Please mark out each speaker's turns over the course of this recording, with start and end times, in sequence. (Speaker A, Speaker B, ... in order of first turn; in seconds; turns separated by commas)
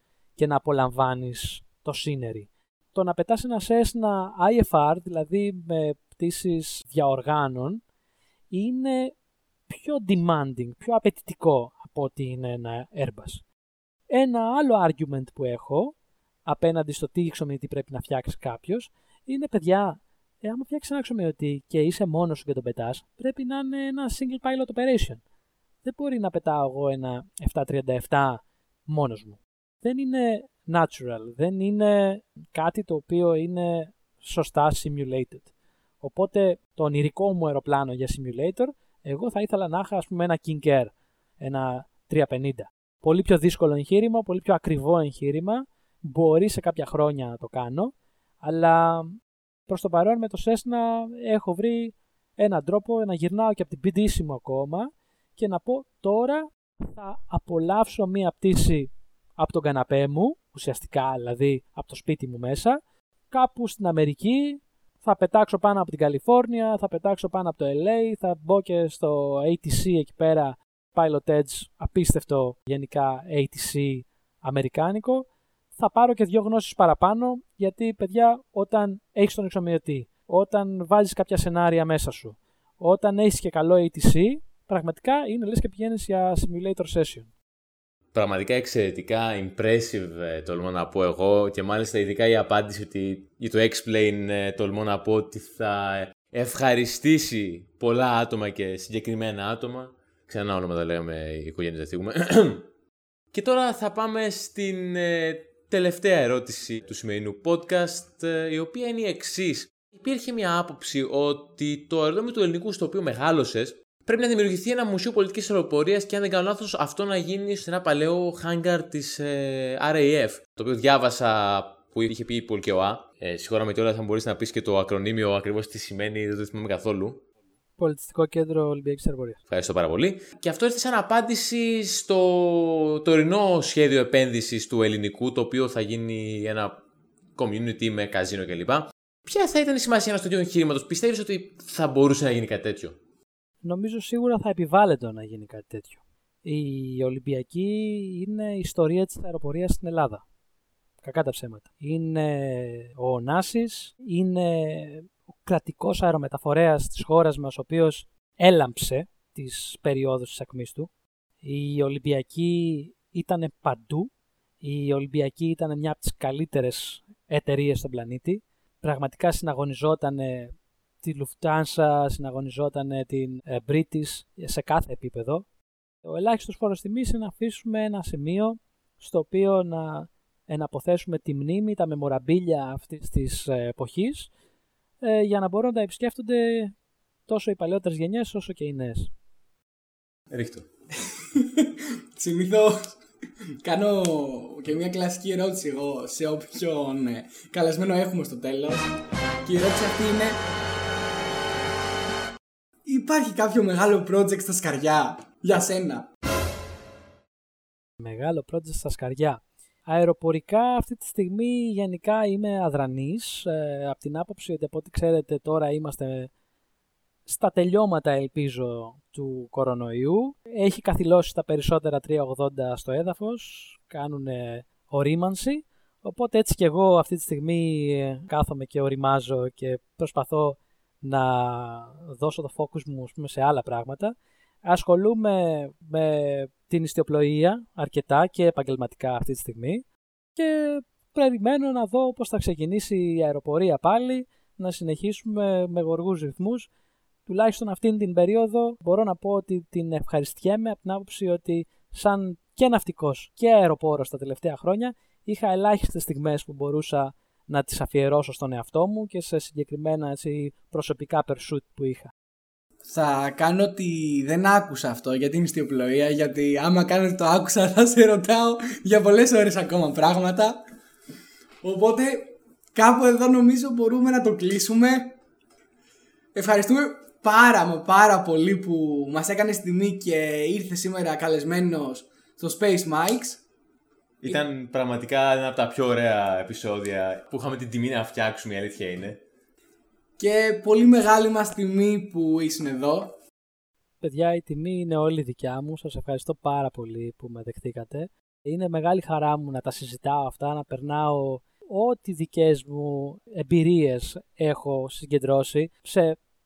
Speaker A: 0.3-7.8, Speaker A: 8.5-9.1, Speaker A: 9.7-13.4, Speaker A: 14.1-15.9, Speaker A: 16.4-25.2, Speaker A: 25.8-35.5, Speaker A: 36.0-62.8, Speaker A: 63.3-87.3, Speaker B: 88.1-102.7, Speaker B: 103.3-127.2, Speaker A: 127.8-129.4, Speaker B: 129.5-136.8, Speaker B: 137.3-143.0, Speaker A: 143.6-150.2, Speaker A: 151.0-160.9, Speaker A: 161.4-164.1, Speaker A: 164.6-175.4, Speaker A: 176.0-184.3, Speaker A: 185.0-186.7, Speaker A: 187.3-189.1, Speaker B: 190.3-190.7, Speaker C: 191.1-192.9, Speaker C: 193.6-198.9, Speaker C: 199.4-200.4, Speaker C: 202.8-206.1, Speaker A: 208.0-216.3, Speaker A: 217.2-239.8, Speaker A: 240.3-246.7, Speaker A: 247.2-262.1, Speaker C: 262.9-270.6, Speaker C: 271.6-275.2, Speaker C: 276.3-283.4, Speaker B: 284.2-289.2, Speaker C: 290.2-293.1, Speaker A: 294.0-306.2